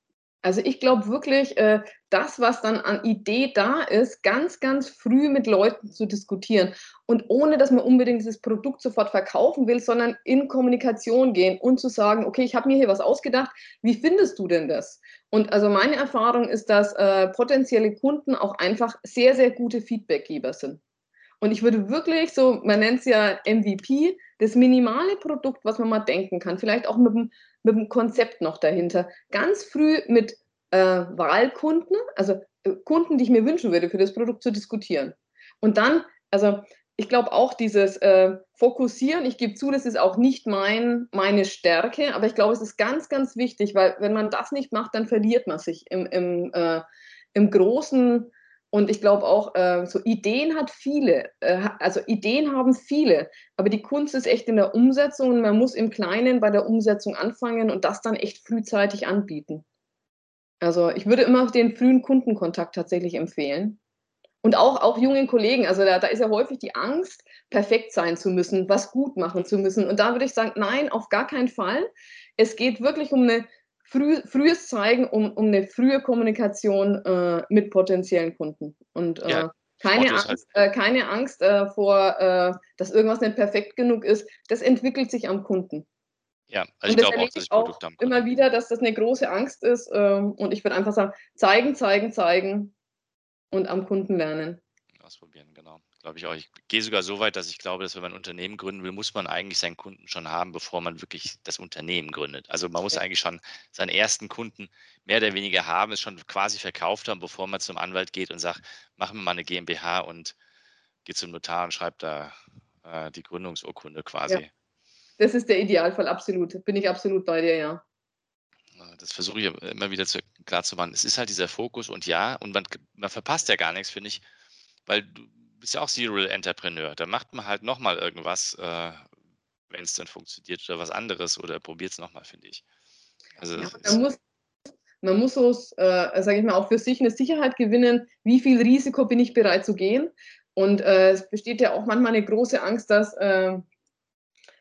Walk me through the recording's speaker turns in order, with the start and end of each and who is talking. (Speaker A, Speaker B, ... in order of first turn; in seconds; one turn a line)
Speaker A: 0.4-20.8
Speaker A: 21.4-59.6
Speaker A: 60.6-63.8
Speaker A: 64.4-85.8
Speaker B: 79.2-80.4
Speaker B: 86.5-88.2
Speaker A: 86.9-92.7
Speaker A: 93.5-94.6
Speaker B: 95.0-110.3
Speaker B: 111.0-114.5
Speaker A: 115.2-117.8
Speaker B: 118.8-124.2
Speaker B: 124.9-129.0
Speaker B: 129.7-132.6
Speaker B: 133.4-134.0
Speaker A: 133.6-134.2
Speaker A: 135.0-143.7